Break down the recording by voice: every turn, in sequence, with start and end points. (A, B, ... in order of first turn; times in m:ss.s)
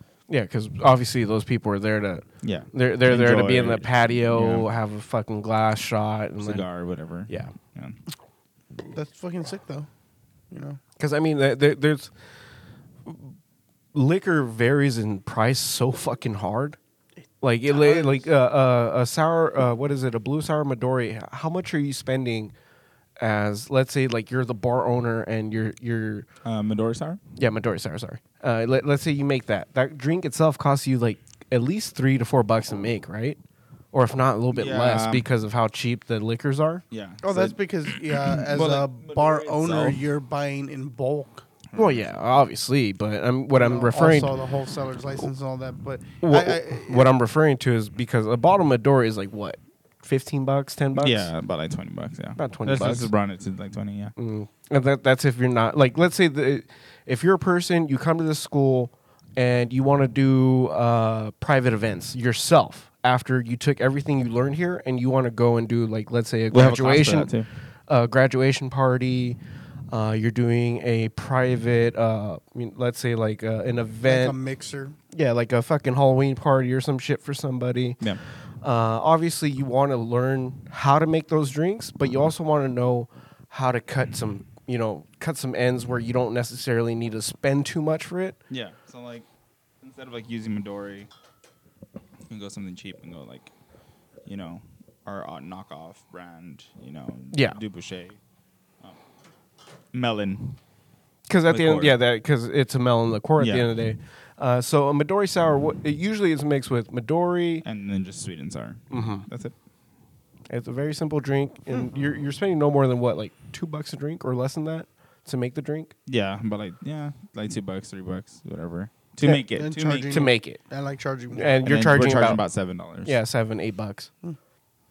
0:00.3-0:06.6 A
0:02.4-0:04.7 B
0:06.4-0:08.0 B
0:07.3-0:07.5 A
0:08.9-0:09.9 C
0:10.5-0:10.8 C
0:11.0-0:12.1 A
0:13.0-0:13.3 A
0:13.9-0:16.8 A
0:17.4-0:22.5 A
0:17.7-0:18.3 C
0:23.2-0:26.3 A
0:26.4-0:27.2 B
0:27.4-0:33.4 A
0:33.9-0:36.8 A
0:34.5-0:35.2 B
0:36.9-0:40.0 B
0:37.2-0:41.4 C
0:41.7-0:42.1 B
0:41.8-0:44.3 A
0:43.5-0:47.1 C
0:46.2-0:51.3 A
0:51.0-0:54.1 B
0:52.4-0:53.1 A
0:54.2-1:07.3 A
1:06.5-1:07.5 B
1:07.9-1:09.4 A
1:09.9-1:14.4 A
1:14.0-1:15.0 C
1:15.1-1:18.0 A
1:18.6-1:28.4 A
1:28.5-1:29.3 B
1:29.8-1:31.1 B
1:32.3-1:33.5 B
1:34.3-1:38.2 B
1:37.3-1:37.6 A
1:39.9-1:40.6 B
1:41.3-1:47.6 A
1:41.5-1:42.0 B
1:43.4-1:43.7 B
1:47.6-1:49.5 B
1:48.9-1:49.3 A
1:50.5-1:55.9 A
1:56.1-2:00.2 B
1:59.5-2:01.6 C
2:00.1-2:00.6 A
2:01.3-2:02.4 A
2:01.6-2:03.2 B
2:03.0-2:04.1 A